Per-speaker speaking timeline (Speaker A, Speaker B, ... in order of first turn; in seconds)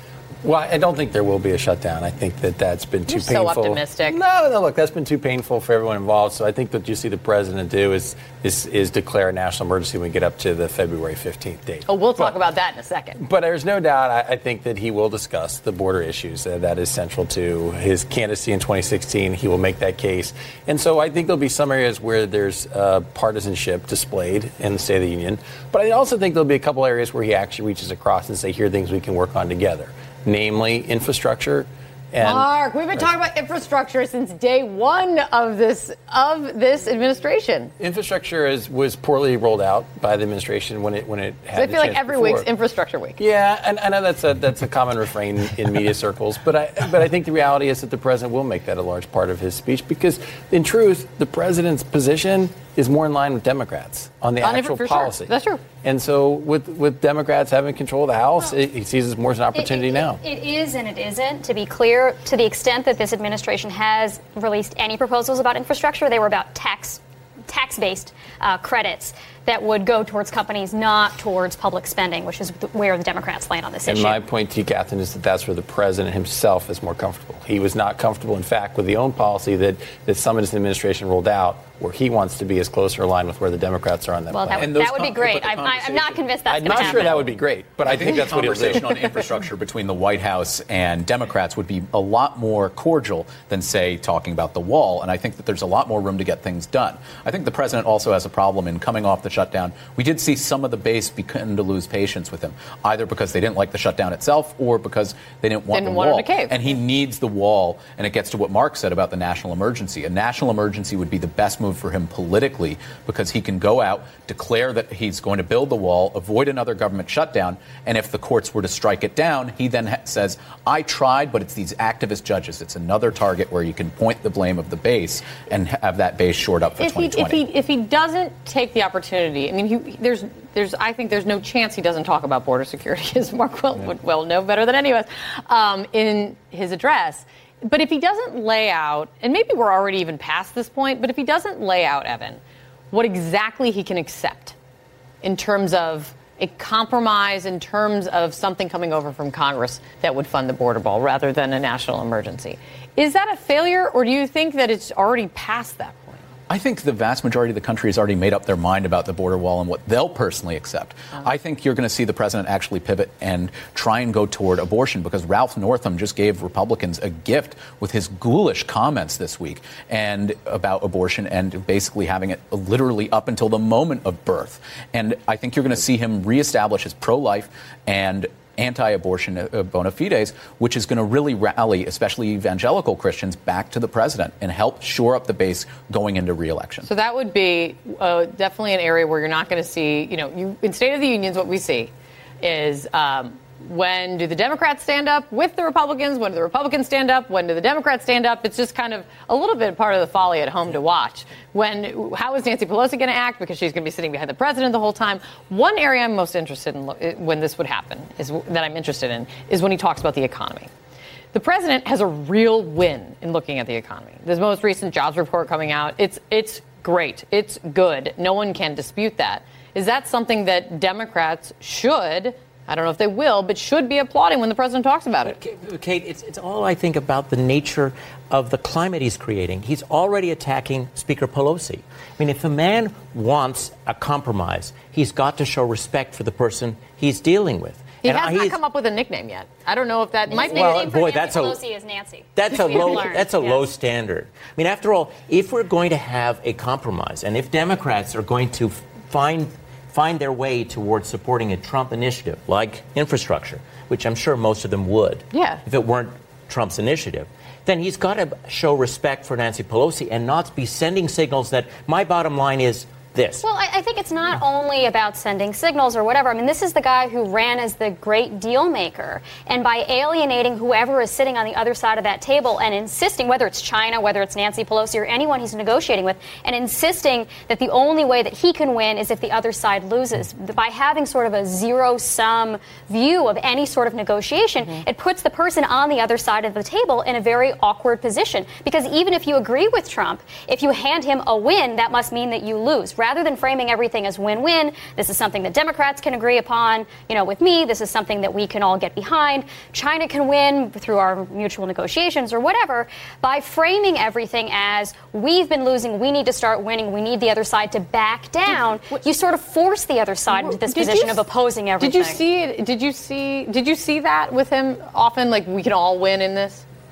Speaker A: 0.4-12.4, 13.2-33.1, 37.8-42.5, 43.2-55.3, 55.8-60.2, 73.9-84.8, 86.5-88.9
Speaker B: 3.1-4.2, 11.9-13.2, 32.2-37.7, 41.5-43.2, 54.4-55.6, 105.7-106.6, 126.8-142.4, 142.9-144.6, 145.2-156.2, 186.8-210.7, 211.3-225.4, 238.0-240.9, 255.3-255.6, 308.5-309.0, 310.3-311.2, 311.8-316.6
Speaker C: 59.5-74.2, 84.3-87.3, 240.3-243.7, 263.4-312.2
Speaker D: 84.6-87.2, 87.8-127.4, 156.5-186.9
Speaker E: 225.2-238.6, 240.5-241.6, 242.3-263.4